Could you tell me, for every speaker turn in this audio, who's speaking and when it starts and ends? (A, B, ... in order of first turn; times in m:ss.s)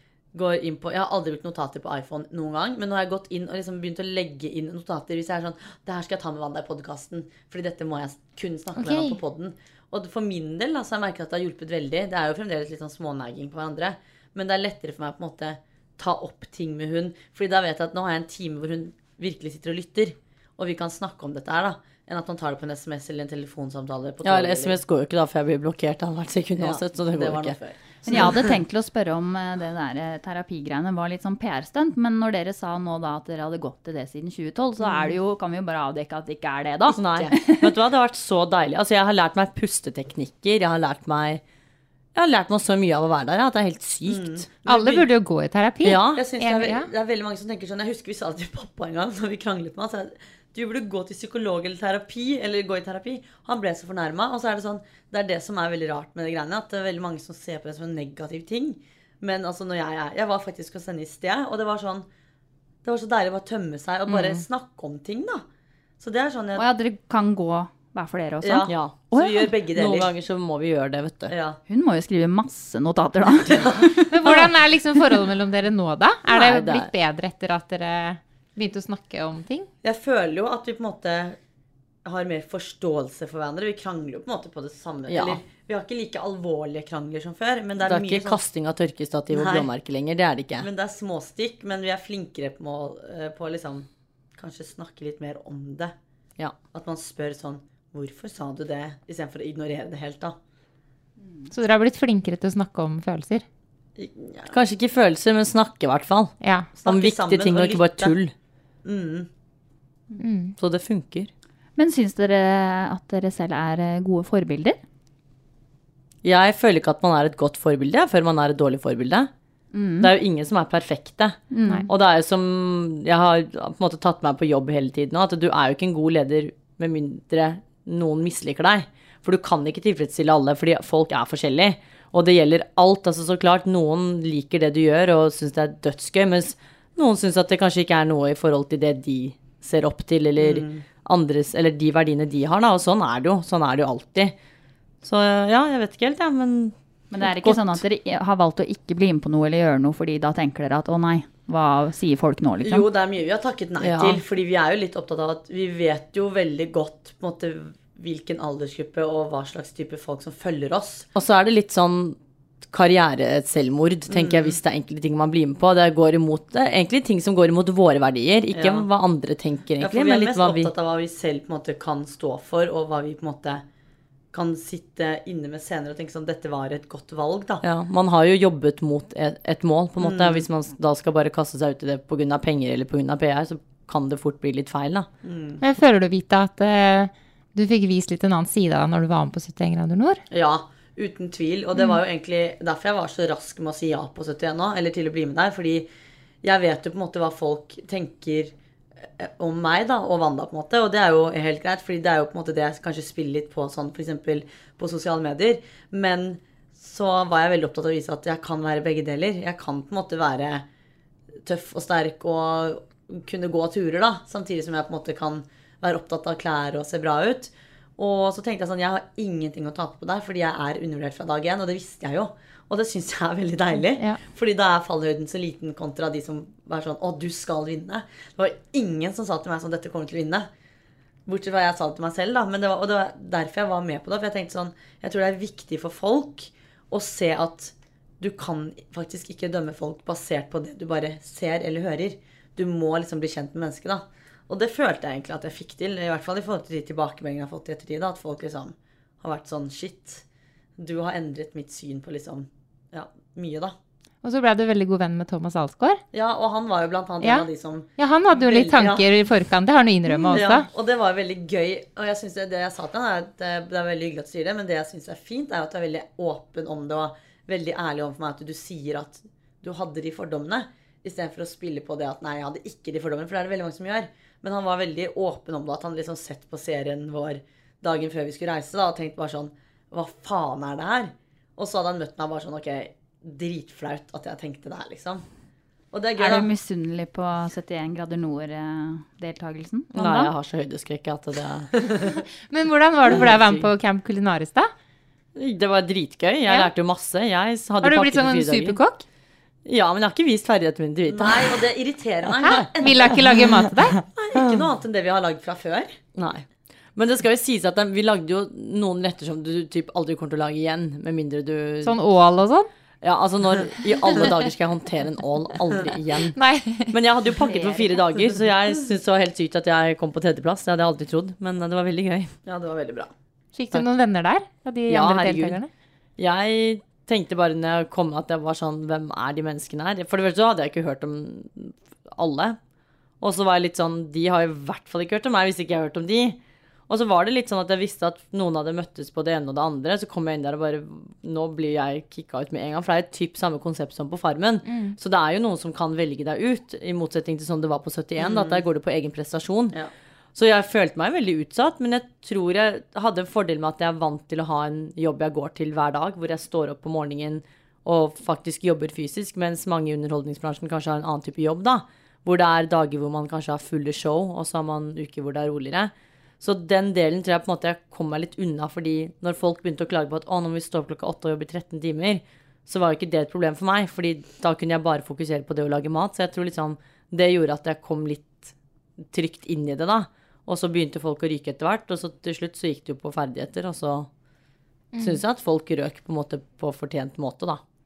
0:00.3-0:24.8 A
0:08.7-0:09.2 B
0:24.2-0:27.6 C
0:26.6-0:28.6 A
0:28.0-0:37.7 D
0:34.8-0:35.1 A
0:36.9-0:41.4 C
0:42.1-0:44.4 C
0:44.0-0:45.1 A
0:44.6-0:46.9 B
0:45.8-0:46.2 C
0:46.1-1:02.1 A
1:02.8-1:05.4 A
1:04.1-1:04.4 C
1:06.0-1:06.6 A
1:06.6-1:09.5 D
1:08.4-1:10.1 A
1:08.7-1:09.1 C
1:09.7-1:11.3 C
1:11.3-1:11.6 A
1:11.7-1:13.6 D
1:13.5-1:14.0 A
1:14.1-1:19.7 B
1:16.3-1:16.9 C
1:19.8-1:21.4 A
1:22.0-1:28.4 A
1:25.1-1:25.4 C
1:27.8-1:30.7 C
1:29.3-1:29.7 A
1:30.6-1:35.9 A
1:36.7-1:40.4 A
1:41.5-1:43.4 B
1:44.0-1:44.6 A
1:44.5-1:46.3 C
1:46.4-1:46.7 B
1:46.8-1:48.2 A
1:46.8-1:48.3 C
1:48.8-1:49.3 A
1:50.2-1:50.5 B
1:50.6-1:51.3 C
1:51.8-1:54.8 D
1:56.2-1:59.3 C
1:59.7-2:00.1 D
2:00.0-2:24.3 C
2:01.5-2:01.9 D
2:20.4-2:20.8 A
2:25.0-2:27.8 C
2:27.1-2:32.9 D
2:32.6-2:41.1 A
2:33.8-2:34.2 C
2:41.1-2:42.2 C
2:42.7-2:50.7 C
2:44.1-2:44.6 A
2:48.5-2:48.9 A
2:49.8-2:53.6 A
2:54.3-2:57.6 A
2:57.6-3:05.1 C
3:00.0-3:00.4 A
3:05.2-3:05.6 A
3:05.6-3:10.2 B
3:10.3-3:15.9 A
3:16.4-3:30.6 A
3:31.4-3:50.5 A
3:43.8-3:44.2 B
3:51.2-4:10.2 A
4:10.8-4:13.7 A
4:14.2-4:16.0 B
4:16.1-4:19.0 A
4:17.2-4:20.7 B
4:20.2-4:45.2 A
4:45.9-4:46.5 A
4:46.2-4:50.3 D
4:49.9-4:51.7 C
4:52.5-4:54.7 B
4:53.1-4:53.7 C
4:55.4-4:58.8 C
4:56.5-4:56.7 B
4:57.8-4:59.0 B
4:59.6-5:01.6 C
5:01.1-5:05.9 A
5:02.4-5:04.0 B
5:06.2-5:12.0 C
5:11.8-5:12.7 B
5:13.0-5:16.4 C
5:16.3-5:17.8 B
5:16.9-5:22.3 C
5:22.4-5:23.1 A
5:23.5-5:25.7 B
5:24.9-5:25.6 C
5:26.2-5:32.6 C
5:33.2-5:49.8 C
5:44.6-5:45.0 B
5:48.2-5:48.6 A
5:50.3-6:18.5 C
6:19.1-6:24.1 C
6:24.9-6:25.2 B
6:25.0-6:27.6 C